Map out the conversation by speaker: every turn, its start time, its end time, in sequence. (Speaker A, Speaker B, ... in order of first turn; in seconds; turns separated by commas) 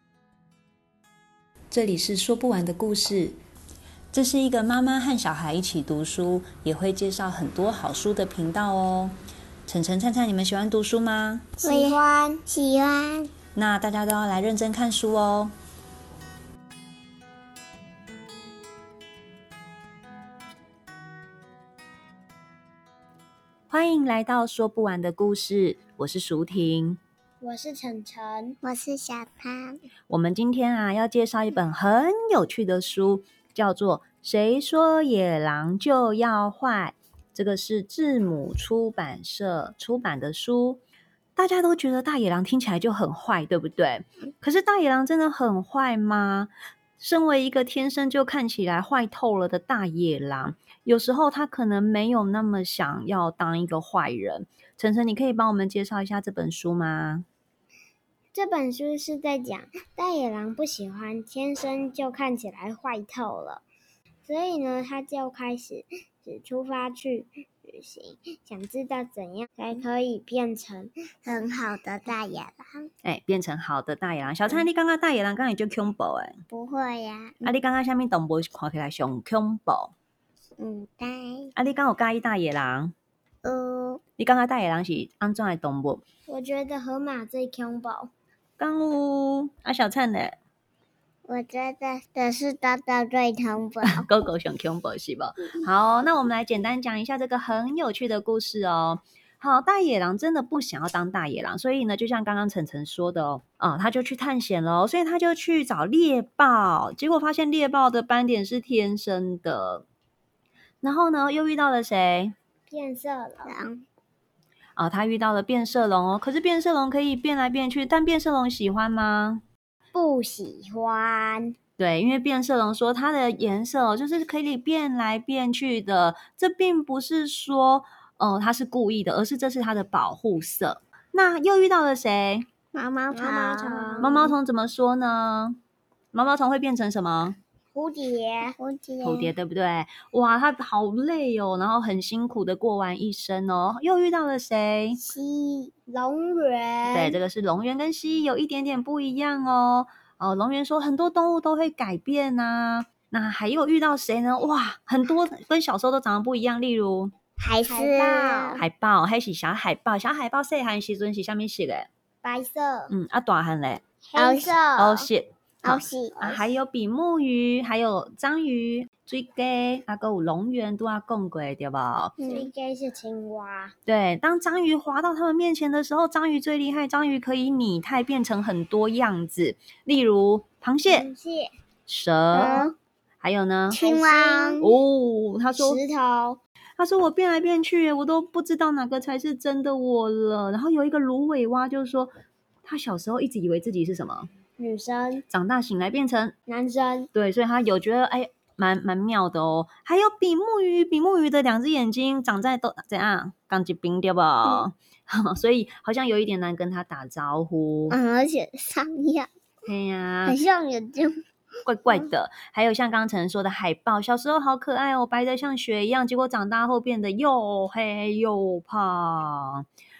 Speaker A: 1.7-3.4, Speaker A: 4.1-9.1, Speaker A: 9.7-11.5, Speaker B: 11.6-13.3, Speaker C: 11.6-12.4, Speaker A: 13.5-15.5, Speaker A: 23.7-27.0, Speaker C: 27.4-28.6, Speaker B: 28.6-29.8, Speaker A: 30.1-40.8, Speaker A: 41.4-57.2, Speaker C: 58.3-63.6, Speaker C: 64.2-70.9, Speaker B: 71.2-72.9, Speaker A: 73.0-76.4, Speaker B: 76.5-77.5, Speaker A: 77.4-79.9, Speaker B: 80.6-81.5, Speaker A: 81.5-82.9, Speaker B: 83.4-84.0, Speaker A: 84.2-86.0, Speaker C: 86.3-88.1, Speaker A: 88.6-90.3, Speaker B: 91.2-94.1, Speaker A: 93.8-109.8, Speaker A: 110.8-112.3, Speaker C: 112.7-113.6, Speaker B: 113.5-113.8, Speaker A: 114.8-119.4, Speaker C: 119.9-121.5, Speaker A: 121.8-132.4, Speaker B: 132.7-134.3, Speaker C: 133.1-134.3, Speaker A: 134.0-135.6, Speaker A: 136.1-137.4, Speaker C: 137.7-138.5, Speaker B: 138.4-139.3, Speaker A: 139.0-145.0, Speaker B: 145.0-145.7, Speaker C: 145.9-147.2, Speaker A: 146.9-157.1, Speaker B: 157.4-158.6, Speaker C: 157.7-158.6, Speaker A: 158.6-161.9, Speaker C: 162.2-162.9, Speaker A: 162.9-163.8, Speaker C: 164.1-165.0, Speaker B: 164.2-164.9, Speaker A: 164.8-172.1, Speaker B: 165.6-166.3, Speaker B: 172.2-172.5, Speaker C: 172.2-173.7, Speaker A: 173.8-181.1, Speaker C: 180.9-181.5, Speaker A: 181.9-182.7, Speaker B: 182.3-182.7, Speaker C: 182.3-182.7, Speaker A: 183.2-183.8, Speaker B: 183.7-184.7, Speaker C: 183.7-184.6, Speaker A: 184.6-185.8, Speaker C: 185.5-186.4, Speaker A: 186.8-192.1, Speaker A: 192.6-194.3, Speaker C: 194.6-195.2, Speaker A: 195.3-196.3, Speaker C: 196.5-197.1, Speaker A: 197.1-208.0, Speaker B: 207.9-209.3, Speaker A: 209.7-210.4, Speaker B: 210.2-211.1, Speaker A: 211.7-219.6